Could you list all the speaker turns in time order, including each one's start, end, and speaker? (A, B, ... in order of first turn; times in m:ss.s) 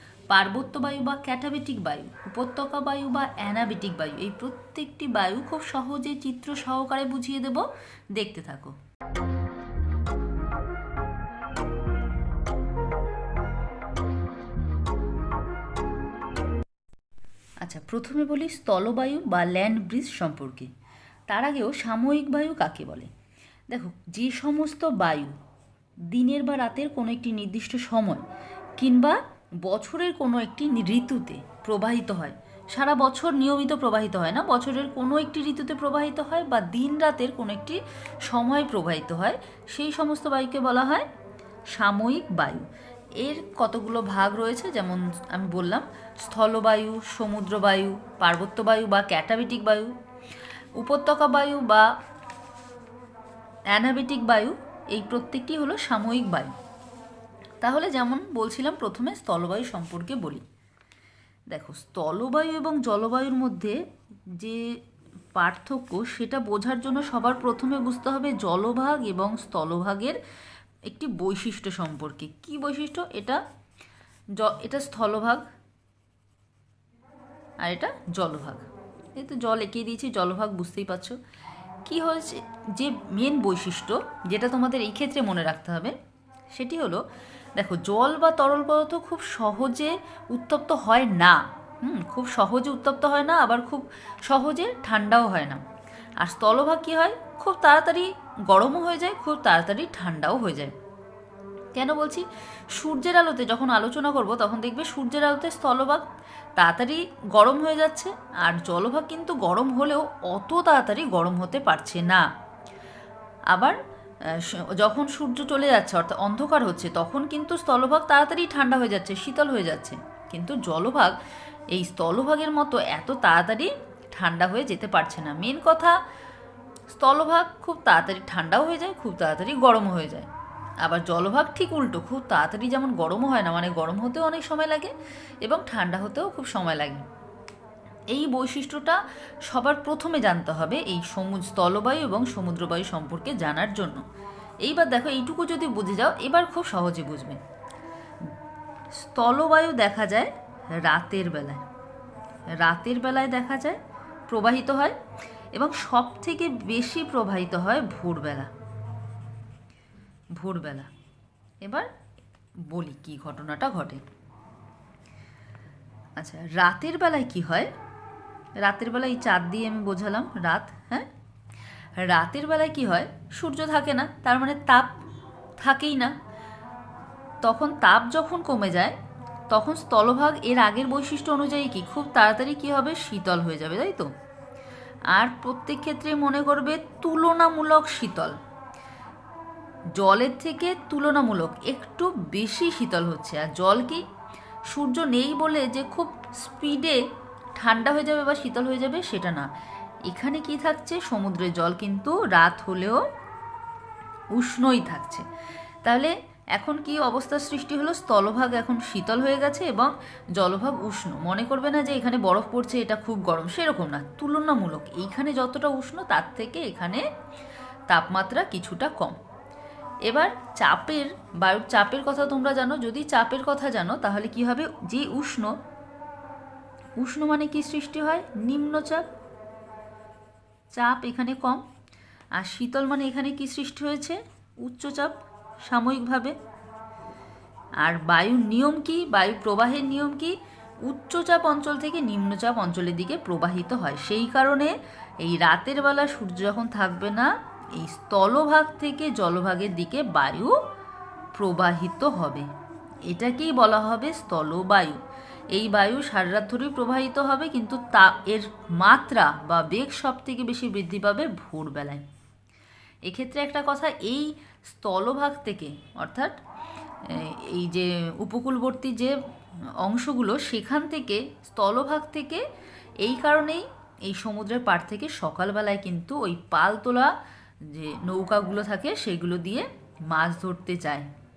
0:00.3-0:08.8 A
0:17.6-0:20.7 A
0:21.3-0:23.1 A
0:23.7-0:25.4 A
0:26.1-0:28.3 A
0:28.8-0:41.1 A
0:41.7-0:42.7 A
0:43.2-0:50.0 A
0:50.8-0:51.9 A
0:53.7-0:56.5 A
0:57.6-1:00.4 A
1:01.5-1:03.8 A
1:04.4-1:04.7 A
1:05.4-1:10.2 A
1:10.9-1:13.4 A
1:14.4-1:15.5 A
1:17.6-1:21.2 A
1:21.8-1:26.0 A
1:26.5-1:27.0 A
1:27.6-1:35.6 A
1:36.2-1:40.8 A
1:41.8-1:46.0 A
1:46.6-1:52.3 A
1:53.5-2:01.2 A
2:01.7-2:06.0 A
2:06.9-2:10.3 A
2:10.8-2:17.0 A
2:18.1-2:24.0 A
2:24.6-2:27.4 A
2:29.0-2:31.6 A
2:32.6-2:35.0 A
2:35.5-2:38.5 A
2:40.4-2:40.9 A
2:41.6-2:41.9 A
2:42.7-2:44.0 A
2:46.2-2:47.7 A
2:48.6-2:51.1 A
2:52.0-2:55.0 A
2:55.6-2:56.1 A
2:57.4-2:59.0 A
2:59.5-3:04.1 A
3:05.1-3:08.4 A
3:10.0-3:14.0 A
3:14.7-3:17.0 A
3:17.6-3:19.5 A
3:20.1-3:23.0 A
3:24.3-3:25.2 A
3:25.8-3:37.1 A
3:37.9-3:39.2 A
3:40.1-3:45.6 A
3:47.0-3:49.1 A
3:50.7-3:51.6 A
3:52.4-3:56.4 A
3:57.8-4:10.6 A
4:11.4-4:12.5 A
4:13.1-4:15.0 A
4:15.5-4:22.0 A
4:23.0-4:26.4 A
4:27.0-4:29.2 A
4:29.8-4:32.4 A
4:33.0-4:37.1 A
4:37.6-4:41.1 A